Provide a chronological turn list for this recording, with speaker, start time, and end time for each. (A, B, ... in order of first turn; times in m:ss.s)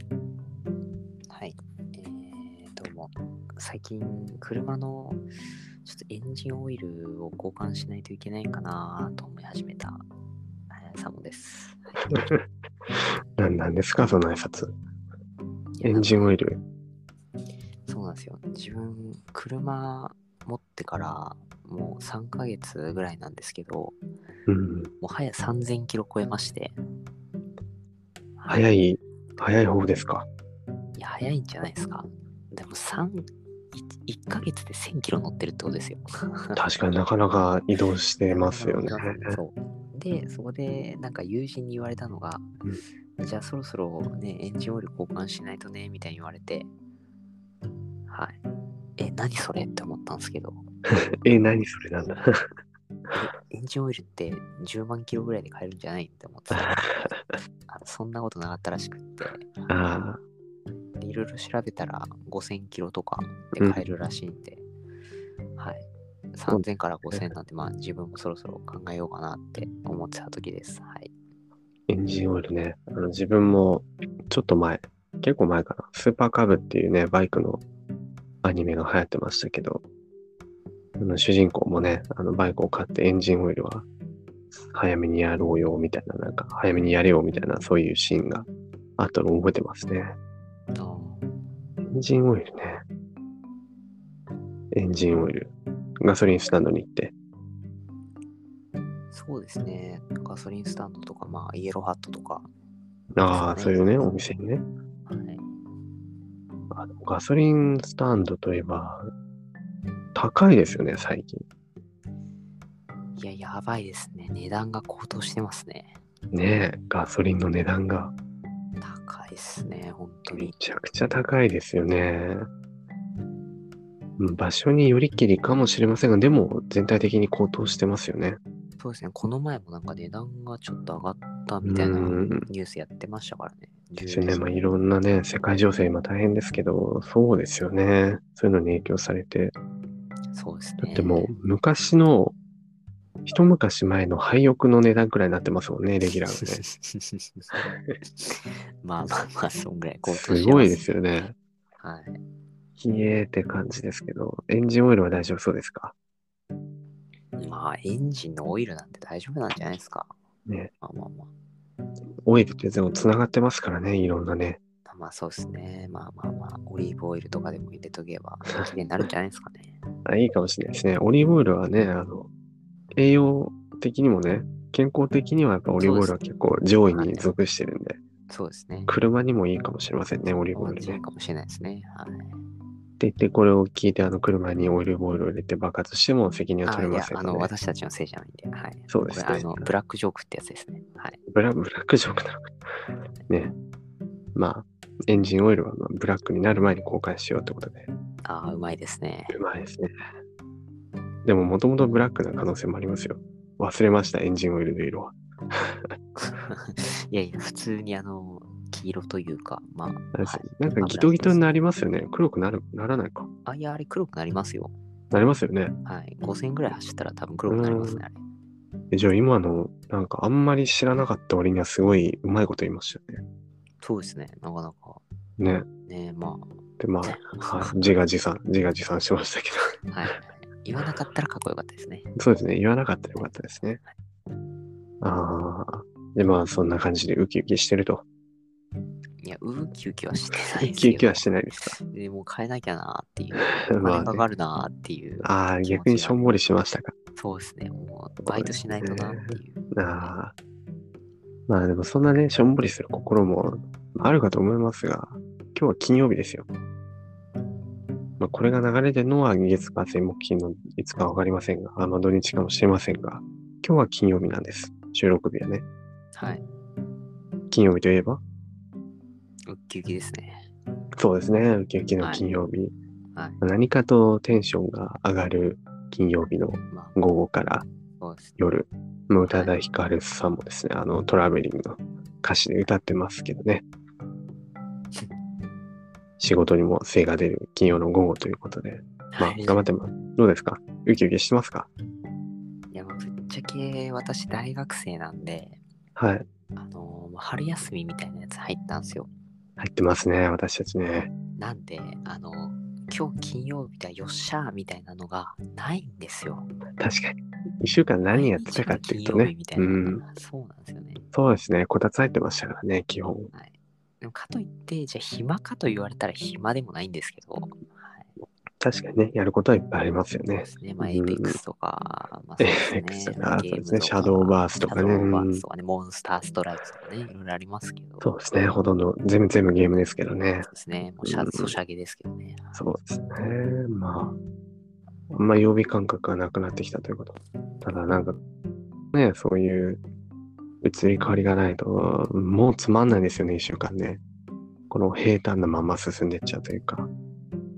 0:01.3-0:05.2 A
0:05.8-0:10.0 A
0:10.7-0:12.1 A
0:12.1-0:12.4 B
0:13.4-0:14.7 B
0:15.8-0:16.3 A
0:15.8-0:16.6 B
0:17.8-0:24.0 A
0:24.5-0:24.9 B
0:25.0-0:26.8 A
0:28.4-0:28.7 A
0:28.5-0:30.2 B
0:31.0-0:36.6 A
0:36.6-0:39.4 B
0:38.3-0:42.5 A
0:43.2-0:46.7 A
0:48.1-0:48.4 A
0:49.0-0:50.6 A
0:50.9-0:52.4 B
0:53.1-0:57.1 A
0:56.5-0:57.4 B
0:57.7-0:59.7 A
0:59.7-1:00.2 B
1:01.0-1:04.6 A
1:03.6-1:03.9 B
1:05.6-1:11.1 A
1:06.5-1:07.3 B
1:11.9-1:17.6 B
1:18.4-1:19.8 B
1:21.0-1:23.8 B
1:24.6-1:30.1 B
1:30.7-1:31.3 A
1:31.9-1:32.8 B
1:34.7-1:37.1 B
1:39.1-1:42.5 A
1:43.1-1:44.6 B
1:43.2-1:44.1 A
1:45.1-1:45.4 A
1:46.7-1:49.0 B
1:50.1-1:51.4 B
1:53.2-1:56.0 A
1:56.3-1:58.1 B
1:58.8-2:00.5 A
2:00.3-2:02.5 B
2:04.2-2:08.4 B
2:08.8-2:14.5 A
2:11.6-2:12.5 B
2:14.0-2:19.5 B
2:20.3-2:21.3 A
2:20.8-2:22.3 B
2:23.2-2:26.6 B
2:26.4-2:27.5 A
2:28.2-2:32.2 A
2:30.0-2:31.3 B
2:32.8-2:35.9 B
2:37.4-2:40.1 A
2:40.8-2:41.3 A
2:42.2-2:44.6 B
2:44.8-2:49.8 A
2:50.0-2:52.3 B
2:52.9-2:58.0 B
2:55.7-2:56.2 A
2:56.9-2:57.3 A
2:58.3-2:58.9 A
2:58.9-3:01.0 B
3:00.5-3:02.3 A
3:03.0-3:07.5 B
3:06.6-3:11.2 A
3:08.9-3:09.6 B
3:11.3-3:12.5 B
3:14.3-3:17.9 B
3:18.2-3:19.4 A
3:19.3-3:19.9 B
3:21.2-3:25.9 B
3:26.2-3:31.5 A
3:30.1-3:33.3 B
3:33.4-3:34.7 A
3:35.1-3:35.7 B
3:35.8-3:38.2 A
3:37.4-3:38.0 B
3:38.9-3:43.2 B
3:43.8-3:45.0 A
3:45.4-3:45.7 B
3:45.9-3:47.8 A
3:46.8-3:49.8 B
3:49.9-3:52.1 A
3:52.2-3:53.8 B
3:53.2-3:53.9 A
3:55.0-3:58.0 B
3:59.2-4:01.3 A
4:00.5-4:01.8 B
4:01.8-4:06.4 A
4:03.7-4:04.2 B
4:05.2-4:06.9 B
4:07.2-4:10.2 A
4:08.2-4:10.3 B
4:11.5-4:16.4 B
4:18.2-4:25.6 B
4:26.1-4:26.4 A
4:27.5-4:28.2 B
4:29.5-4:30.5 A
4:31.0-4:32.7 B
4:32.0-4:32.3 A
4:33.1-4:33.4 A
4:33.4-4:37.6 B
4:38.0-4:38.3 A
4:38.4-4:43.6 B
4:39.2-4:39.6 A
4:46.2-4:51.7 B
4:49.1-4:49.6 A
4:52.7-4:55.6 A
4:56.0-4:56.2 B
4:56.6-4:59.1 A
4:59.6-5:01.1 B
5:01.4-5:06.5 A
5:06.8-5:10.0 B
5:08.1-5:11.0 A
5:11.1-5:13.3 B
5:13.3-5:18.1 A
5:18.6-5:21.4 B
5:20.3-5:28.1 A
5:22.4-5:25.4 B
5:28.0-5:30.5 B
5:30.4-5:32.6 A
5:31.0-5:31.5 B
5:32.5-5:34.2 B
5:35.1-5:38.2 B
5:38.9-5:39.8 B
5:40.6-5:44.0 B
5:44.7-5:46.9 B